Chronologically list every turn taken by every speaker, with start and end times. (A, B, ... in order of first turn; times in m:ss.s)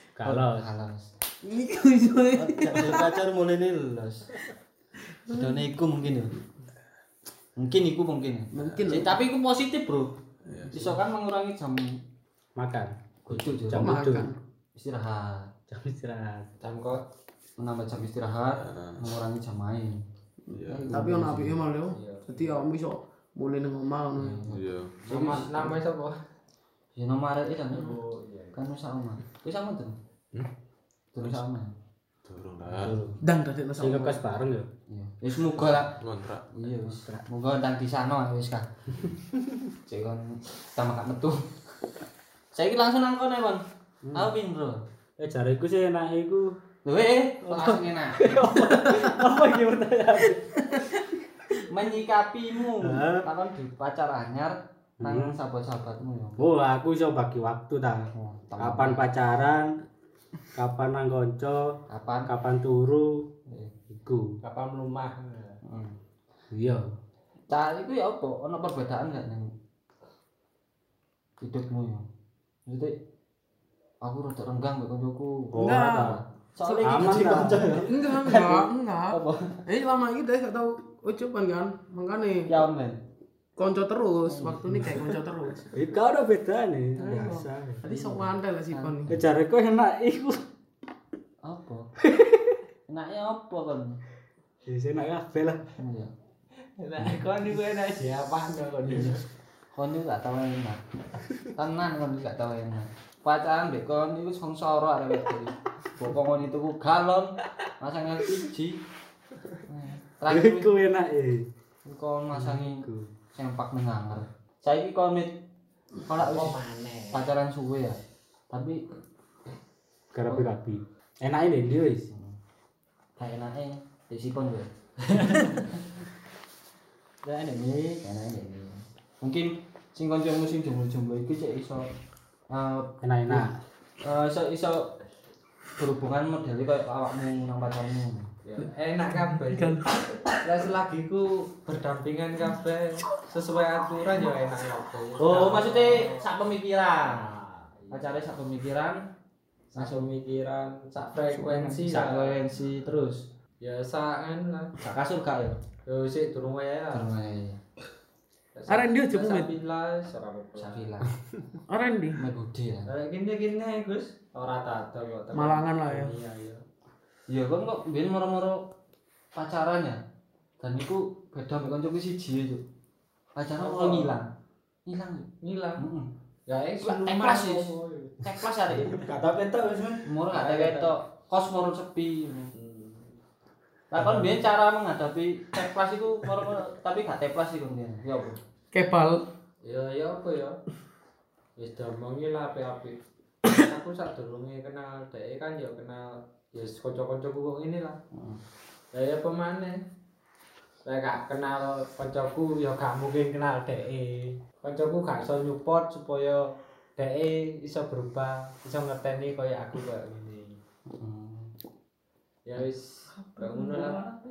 0:00.2-0:00.7 A
0:00.2-0:01.1 B
0:01.4-0:03.1 C
0:02.4-0:04.3 B
0:05.3-0:06.4 B
0:07.6-0:10.1 B
0:08.5-0:09.2 C
0:08.6-0:09.0 D
0:10.5-0:10.9 D
0:10.7-0:12.0 B
0:12.6-0:14.3 A
0:13.3-0:14.0 B
0:13.8-0:14.4 C
0:14.8-0:15.5 B
0:15.7-0:16.5 A
0:16.6-0:17.0 E
0:17.6-0:20.0 B
0:18.5-0:19.1 D
0:20.5-0:24.4 C
0:20.5-0:20.9 D
0:20.6-0:21.6 B
0:21.9-0:22.4 E
0:24.2-0:25.8 B
0:24.5-0:25.0 D
0:25.1-0:26.2 E
0:27.0-0:28.0 B
0:27.7-0:28.6 E
0:28.5-0:30.0 B
0:31.1-0:31.7 B
0:32.2-0:33.1 D
0:32.6-0:33.2 B
0:33.2-0:34.2 C
0:33.8-0:34.7 A
0:34.9-0:36.0 B
0:35.7-0:36.9 D
0:36.6-0:38.7 B
0:39.8-0:41.4 B
0:42.5-0:44.8 B
0:44.0-0:44.3 A
0:45.2-0:46.6 A
0:46.9-0:48.6 B
0:47.5-0:50.6 A
0:51.7-0:56.4 B
0:52.8-0:53.3 A
0:55.0-0:55.4 A
0:56.4-0:59.7 A
0:58.1-0:59.1 B
1:00.6-1:01.7 A
1:01.9-1:02.3 B
1:02.3-1:03.2 A
1:03.5-1:03.7 B
1:03.9-1:04.3 A
1:04.4-1:05.6 E
1:05.6-1:06.0 B
1:06.5-1:06.9 A
1:07.5-1:09.5 B
1:11.4-1:12.1 B
1:12.7-1:13.0 B
1:14.0-1:19.6 B
1:15.5-1:16.2 A
1:15.6-1:22.5 C
1:16.8-1:17.9 A
1:22.5-1:23.0 B
1:23.6-1:25.6 C
1:24.3-1:25.1 B
1:25.7-1:27.8 A
1:27.0-1:29.2 B
1:27.8-1:29.1 C
1:29.1-1:30.4 A
1:31.4-1:31.9 B
1:32.0-1:32.6 A
1:32.9-1:34.0 B
1:34.7-1:35.6 A
1:35.8-1:36.1 B
1:36.8-1:39.2 E
1:38.9-1:39.2 B
1:39.7-1:40.8 B
1:41.4-1:48.8 B
1:49.6-1:50.7 B
1:50.3-1:51.5 A
1:51.8-1:55.4 B
1:52.3-1:53.1 A
1:56.1-1:56.6 B
1:56.2-1:57.3 E
1:57.1-1:58.0 B
1:58.5-1:58.8 B
2:00.1-2:02.1 A
2:02.1-2:02.4 B
2:03.2-2:05.9 B
2:07.2-2:11.9 B
2:12.5-2:13.5 B
2:13.0-2:13.5 A
2:14.0-2:14.9 B
2:15.8-2:18.3 B
2:18.4-2:19.8 E
2:19.2-2:20.2 C
2:20.4-2:26.3 E
2:25.2-2:27.3 B
2:27.0-2:28.2 E
2:27.9-2:29.0 B
2:29.7-2:32.4 E
2:29.8-2:30.1 B
2:31.6-2:33.2 B
2:33.6-2:34.8 E
2:34.8-2:35.6 B
2:35.9-2:37.1 E
2:36.9-2:37.6 B
2:38.6-2:40.9 E
2:38.7-2:39.5 C
2:40.6-2:41.1 B
2:41.7-2:42.2 C
2:42.2-2:42.9 B
2:42.9-2:46.6 E
2:45.3-2:46.1 C
2:47.3-2:48.6 B
2:49.4-2:50.0 B
2:50.6-2:52.6 B
2:53.4-2:54.3 B
2:53.6-2:54.1 E
2:54.9-2:56.1 B
2:55.4-2:55.8 E
2:56.5-2:58.3 E
2:56.8-2:59.1 B
2:58.7-3:00.7 A
3:00.0-3:02.5 B
3:00.5-3:00.9 E
3:02.5-3:03.1 E
3:03.9-3:08.4 B
3:08.7-3:09.2 C
3:09.6-3:10.6 E
3:11.6-3:18.0 E
3:18.1-3:18.4 B
3:18.9-3:19.8 E
3:20.8-3:26.4 E
3:27.0-3:30.6 E
3:30.9-3:31.5 B
3:32.5-3:34.1 E